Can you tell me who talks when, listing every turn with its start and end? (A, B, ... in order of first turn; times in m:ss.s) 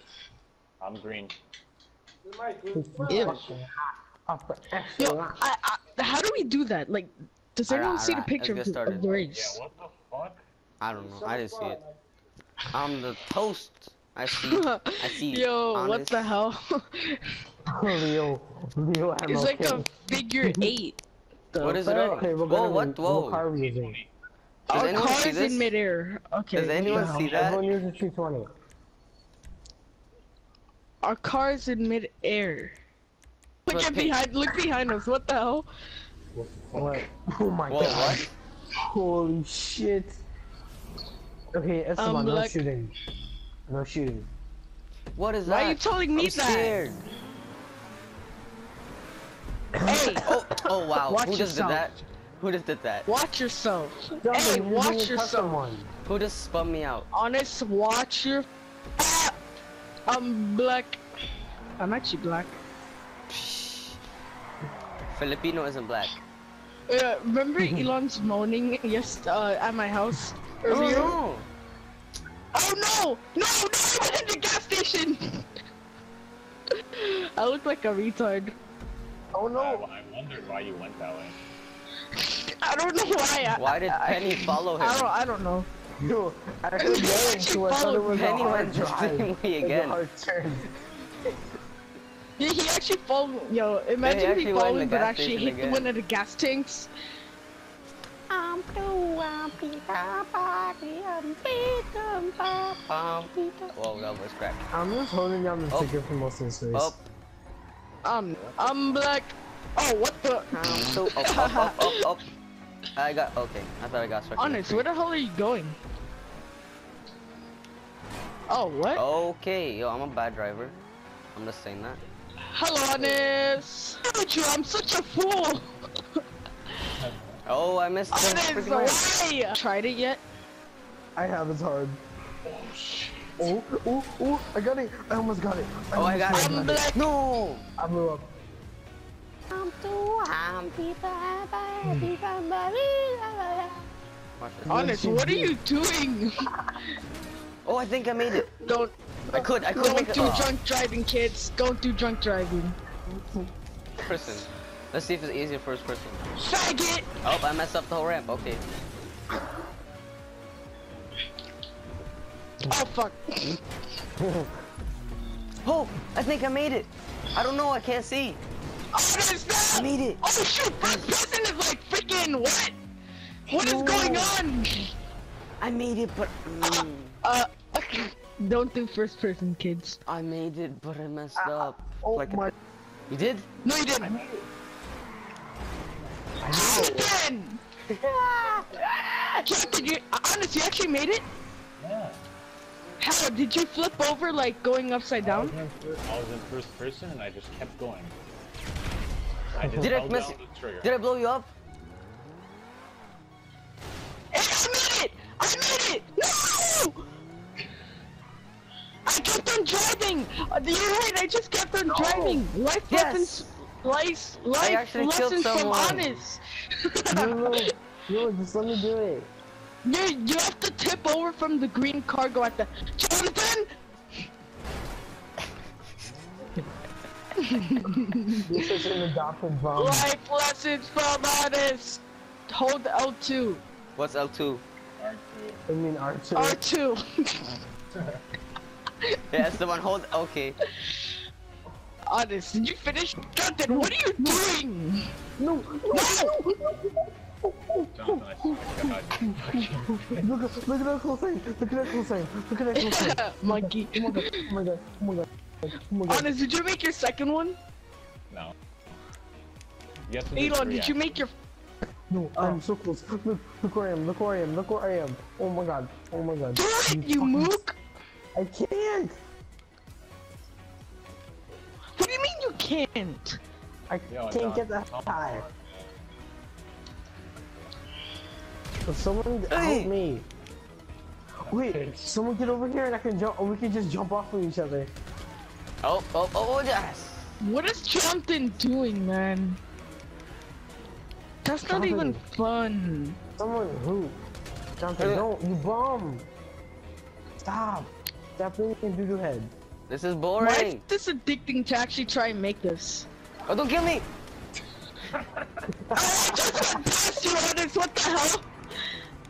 0:00.8-0:01.3 A
0:02.7-0:05.4 B
0:03.1-0:03.4 C
0:05.0-0:09.6 C
0:07.7-0:09.1 D
0:09.3-0:10.4 A
0:10.8-0:11.8 D
0:12.7-0:16.3 D
0:14.3-0:17.3 C
0:17.7-0:20.7 B
0:19.3-0:21.0 C
0:21.5-0:21.8 C
0:21.6-0:23.4 D
0:21.7-0:24.0 B
0:23.5-0:24.1 A
0:24.7-0:25.7 D
0:24.7-0:27.3 C
0:26.5-0:27.6 D
0:26.8-0:28.5 B
0:31.0-0:32.8 C
0:33.6-0:35.7 C
0:33.7-0:34.1 D
0:36.3-0:37.0 A
0:36.7-0:38.3 B
0:37.7-0:38.3 D
0:38.9-0:40.2 B
0:41.5-0:42.9 B
0:42.0-0:42.6 C
0:43.7-0:44.3 B
0:45.2-0:47.0 D
0:45.4-0:46.8 C
0:49.8-0:50.4 B
0:49.8-0:50.3 C
0:50.1-0:53.1 D
0:51.0-0:51.9 C
0:53.0-0:55.6 C
0:54.2-0:55.9 B
0:56.0-0:57.1 D
0:57.1-0:58.5 C
0:59.0-0:59.4 C
1:00.1-1:01.0 C
1:01.8-1:02.6 C
1:03.3-1:04.0 D
1:05.1-1:06.2 D
1:06.9-1:11.2 C
1:07.6-1:07.9 B
1:10.7-1:11.5 D
1:12.5-1:15.5 C
1:16.9-1:18.6 C
1:19.3-1:19.8 B
1:19.5-1:21.4 A
1:22.1-1:25.7 C
1:23.5-1:25.1 D
1:26.0-1:30.7 B
1:26.8-1:28.6 C
1:28.1-1:30.0 D
1:32.4-1:36.9 C
1:34.0-1:35.9 D
1:38.3-1:44.7 D
1:44.7-1:46.9 B
1:45.7-1:46.0 D
1:46.7-1:47.0 D
1:48.0-1:52.0 C
1:48.3-1:49.0 A
1:50.5-1:52.3 D
1:53.0-1:54.9 D
1:54.4-1:55.8 C
1:58.5-1:59.1 C
1:58.9-2:00.8 D
2:01.3-2:02.0 D
2:02.4-2:05.7 C
2:07.0-2:07.4 A
2:07.4-2:09.0 D
2:08.1-2:10.2 C
2:11.2-2:12.0 B
2:12.4-2:13.5 A
2:13.4-2:16.8 B
2:15.9-2:17.6 D
2:16.3-2:17.0 C
2:17.8-2:18.3 B
2:19.5-2:23.8 D
2:21.8-2:22.2 B
2:24.4-2:25.0 D
2:24.7-2:25.5 B
2:24.7-2:26.4 C
2:27.6-2:28.5 D
2:28.2-2:28.6 B
2:28.6-2:28.9 C
2:29.3-2:30.5 D
2:29.6-2:32.8 C
2:33.1-2:33.5 B
2:34.0-2:36.2 D
2:36.4-2:37.1 C
2:37.2-2:38.6 D
2:42.6-2:43.6 C
2:44.2-2:44.5 B
2:45.6-2:48.4 D
2:48.9-2:52.8 C
2:49.7-2:50.2 D
2:50.8-2:51.1 D
2:53.5-2:54.9 C
2:53.5-2:54.3 D
2:55.6-2:57.2 D
2:56.6-3:00.0 C
3:00.0-3:02.5 D
3:01.4-3:02.5 B
3:03.1-3:03.5 D
3:03.6-3:04.2 C
3:04.0-3:04.4 B
3:06.4-3:07.1 B
3:06.5-3:07.6 C
3:08.0-3:08.6 D
3:09.0-3:11.2 C
3:11.8-3:12.2 A
3:13.0-3:15.5 C
3:15.2-3:18.1 A
3:19.5-3:20.9 A
3:19.7-3:21.5 D
3:24.3-3:27.1 C
3:29.0-3:37.6 C
3:31.9-3:32.4 B
3:32.9-3:33.5 D
3:34.6-3:36.1 D
3:37.1-3:39.3 B
3:39.8-3:43.7 C
3:47.4-3:48.8 C
3:48.3-3:50.1 B
3:49.7-3:53.6 C
3:54.0-3:54.6 D
3:55.0-3:55.6 A
3:55.7-3:56.6 B
3:56.3-3:57.6 C
3:59.3-4:00.6 D
4:00.6-4:01.1 C
4:02.1-4:05.1 C
4:03.7-4:04.4 B
4:05.4-4:16.3 B
4:05.9-4:06.5 C
4:07.9-4:10.3 A
4:12.8-4:14.5 C
4:16.1-4:17.6 C
4:20.1-4:21.0 A
4:20.3-4:21.3 C
4:22.1-4:27.6 B
4:26.5-4:27.8 C
4:28.3-4:29.1 B
4:32.0-4:33.4 C
4:33.9-4:35.4 B
4:34.1-4:35.7 A
4:38.8-4:40.3 B
4:39.5-4:39.9 D
4:41.5-4:44.9 B
4:41.5-4:42.0 A
4:45.8-4:47.2 D
4:47.4-4:49.6 C
4:51.4-4:53.2 C
4:51.6-4:52.2 B
4:53.4-4:54.2 B
4:54.8-4:56.3 B
4:55.0-4:55.2 D
4:57.4-4:59.5 B
4:59.9-5:00.8 D
5:00.4-5:03.1 C
5:03.5-5:04.1 D
5:05.7-5:06.8 B
5:05.9-5:08.4 C